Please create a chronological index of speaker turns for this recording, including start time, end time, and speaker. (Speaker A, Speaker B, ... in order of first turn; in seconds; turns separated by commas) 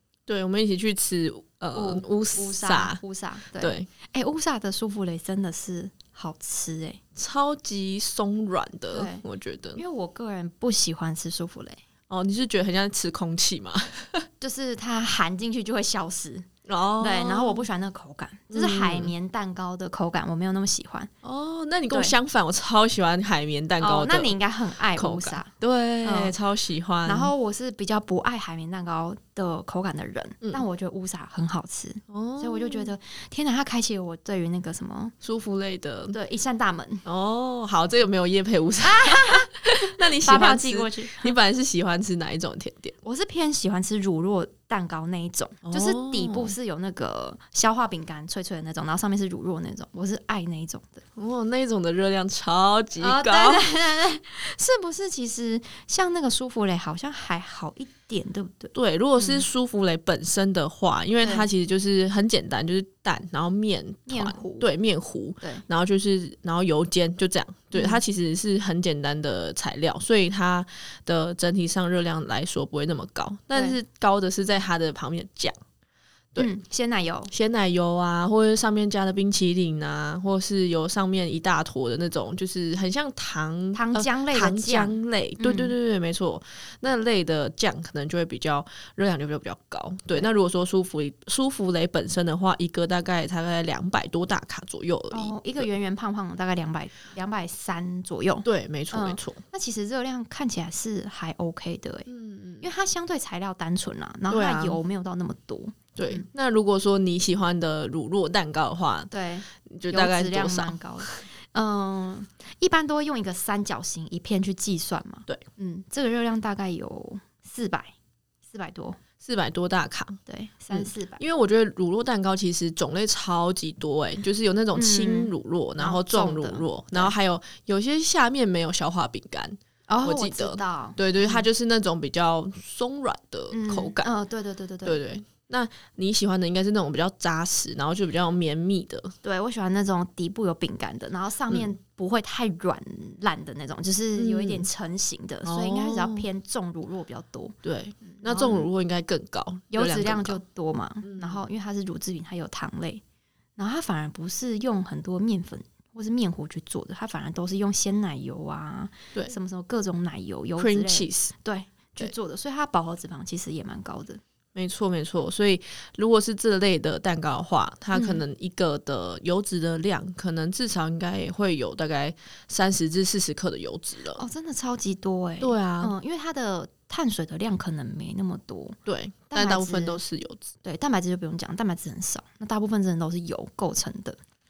Speaker A: 0.3-3.0, Speaker B: 1.7-7.0, Speaker A: 3.6-3.9, Speaker A: 7.2-9.8, Speaker B: 8.9-9.2, Speaker B: 9.8-11.8, Speaker A: 12.1-14.2, Speaker B: 14.4-16.5, Speaker A: 16.6-17.6, Speaker B: 17.0-21.1, Speaker A: 18.5-19.1, Speaker A: 21.2-24.4, Speaker B: 21.9-22.1, Speaker B: 23.8-25.5, Speaker A: 24.9-27.3, Speaker B: 26.0-26.4, Speaker B: 27.0-35.1, Speaker A: 32.1-32.9, Speaker A: 35.2-36.1, Speaker B: 36.1-37.0, Speaker A: 37.0-42.9, Speaker B: 38.8-41.4, Speaker B: 43.0-51.0, Speaker A: 45.6-46.5, Speaker A: 51.1-53.6, Speaker B: 53.0-59.4, Speaker A: 58.7-75.6, Speaker B: 61.2-61.5, Speaker B: 64.1-64.7, Speaker B: 67.7-68.0, Speaker B: 76.4-77.3, Speaker A: 77.3-95.7, Speaker B: 83.7-85.7, Speaker B: 95.1-102.1, Speaker A: 98.4-99.4, Speaker A: 102.1-102.7, Speaker B: 102.6-106.2, Speaker A: 104.3-104.8, Speaker A: 106.0-109.1, Speaker B: 109.1-117.9, Speaker A: 109.6-111.2, Speaker B: 118.5-119.0, Speaker A: 119.2-120.2, Speaker B: 120.3-121.2, Speaker A: 120.7-134.1, Speaker B: 124.7-127.1, Speaker B: 129.9-131.5, Speaker B: 133.5-135.0, Speaker A: 134.8-139.1, Speaker B: 139.2-148.7, Speaker A: 144.1-144.7, Speaker A: 145.4-146.2, Speaker A: 147.6-150.4, Speaker B: 149.7-153.0, Speaker A: 151.1-151.4, Speaker B: 153.6-164.2, Speaker A: 160.6-161.3, Speaker A: 164.5-174.2, Speaker B: 167.9-168.2, Speaker B: 174.2-178.8, Speaker A: 175.4-175.9, Speaker A: 178.8-180.5, Speaker B: 179.3-180.0, Speaker B: 180.6-184.2